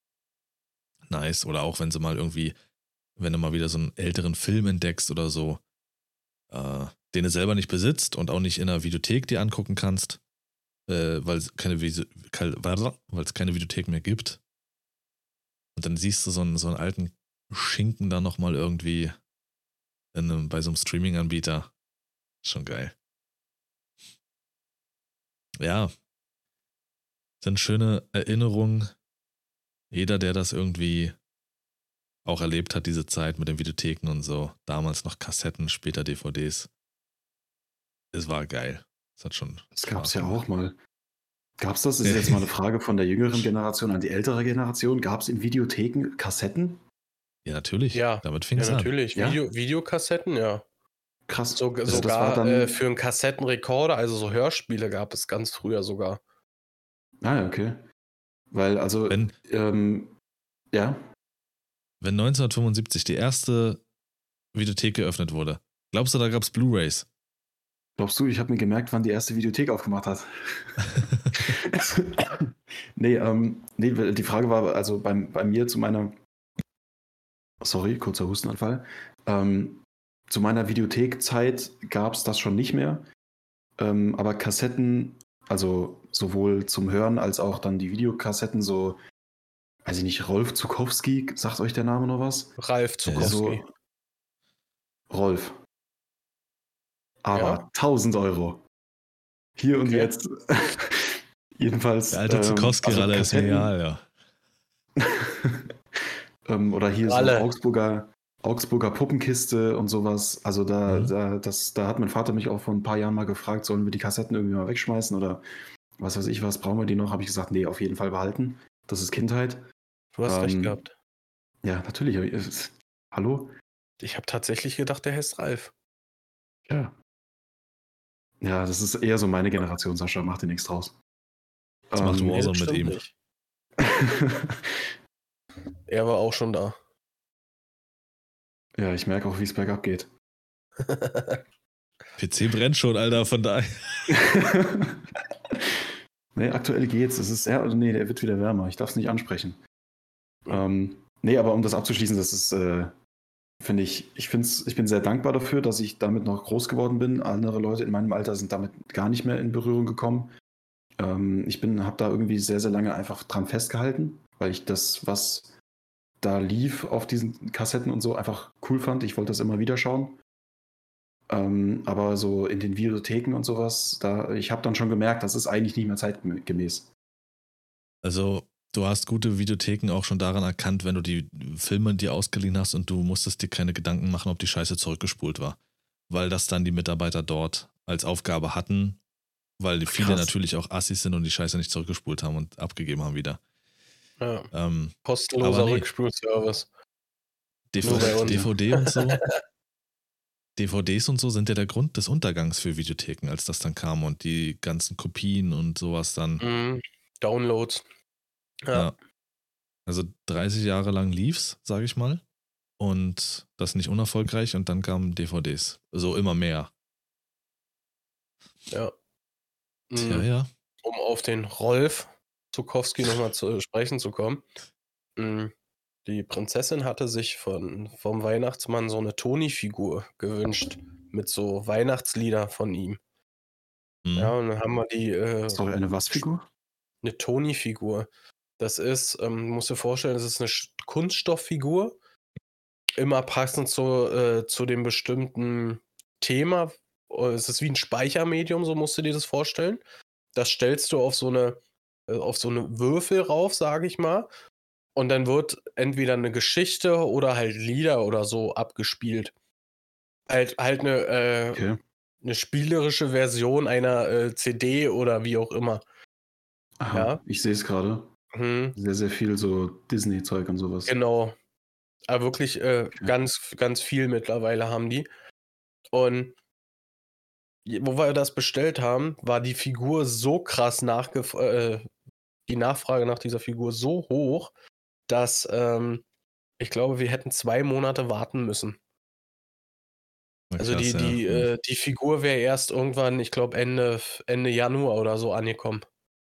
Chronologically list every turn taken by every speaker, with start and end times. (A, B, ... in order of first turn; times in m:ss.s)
0:01.1-0:02.6 A
0:03.2-0:05.6 A
0:06.5-0:10.2 A
0:10.9-0:14.4 A
0:15.8-0:19.2 A
0:20.1-0:21.7 A
0:22.4-0:22.9 A
0:25.6-0:25.9 A
0:27.4-0:28.9 A
0:29.9-0:31.2 A
0:32.2-0:36.7 A
0:38.1-0:40.4 A
0:39.7-0:40.8 B
0:41.6-0:46.8 B
0:42.0-0:42.5 A
0:47.4-0:48.9 A
0:47.9-0:50.6 C
0:49.1-0:49.4 B
0:51.3-0:52.8 B
0:51.5-0:56.2 C
0:57.2-0:57.8 B
0:58.5-1:00.1 B
1:00.7-1:01.0 B
1:02.0-1:03.8 A
1:04.5-1:07.1 A
1:08.0-1:16.1 B
1:17.6-1:23.0 B
1:23.8-1:29.0 B
1:29.8-1:32.5 B
1:32.6-1:33.6 C
1:33.0-1:33.4 A
1:33.1-1:33.7 B
1:35.1-1:35.6 B
1:37.2-1:38.6 B
1:37.3-1:37.6 C
1:39.6-1:43.7 B
1:39.8-1:40.1 C
1:42.1-1:44.1 A
1:45.0-1:45.6 B
1:46.4-1:55.4 B
1:47.0-1:47.5 C
1:50.9-1:51.1 A
1:56.0-1:59.6 B
2:00.1-2:00.9 C
2:00.2-2:00.8 B
2:01.6-2:03.5 B
2:04.0-2:05.7 C
2:06.7-2:06.9 B
2:08.4-2:11.0 B
2:11.9-2:12.5 B
2:12.0-2:13.0 A
2:12.3-2:13.1 C
2:13.8-2:14.7 B
2:15.9-2:16.8 C
2:18.8-2:20.1 B
2:20.8-2:21.4 C
2:22.2-2:24.1 A
2:24.1-2:25.0 B
2:26.3-2:29.6 B
2:30.5-2:32.9 B
2:33.6-2:40.3 B
2:41.0-2:45.5 B
2:46.2-2:50.2 B
2:51.3-2:56.9 B
2:58.0-3:05.6 A
3:06.1-3:09.0 A
3:09.6-3:13.4 A
3:10.0-3:10.3 B
3:14.2-3:14.5 C
3:14.5-3:15.9 A
3:15.0-3:16.7 C
3:17.7-3:19.2 A
3:17.8-3:19.3 C
3:17.8-3:18.5 B
3:20.6-3:26.4 A
3:26.4-3:27.8 C
3:28.6-3:28.9 C
3:29.8-3:32.2 A
3:32.8-3:36.7 A
3:39.9-3:40.3 C
3:40.0-3:40.5 A
3:40.8-3:44.4 C
3:45.2-3:45.5 C
3:46.0-3:53.0 C
3:54.0-3:54.4 A
3:54.2-3:56.2 C
3:55.5-3:56.4 B
3:57.0-3:58.1 C
3:58.6-4:02.0 C
4:03.0-4:09.8 C
4:10.3-4:14.3 C
4:15.0-4:19.3 C
4:20.3-4:21.6 C
4:21.5-4:21.8 B
4:22.2-4:25.8 C
4:26.8-4:28.1 B
4:26.9-4:27.2 C
4:28.3-4:28.8 C
4:28.7-4:30.9 B
4:30.9-4:31.4 C
4:32.1-4:35.1 C
4:35.9-4:36.4 C
4:37.6-4:41.9 C
4:42.5-4:44.5 C
4:45.1-4:46.0 C
4:46.6-4:48.8 C
4:50.5-4:51.5 A
4:50.6-4:55.8 C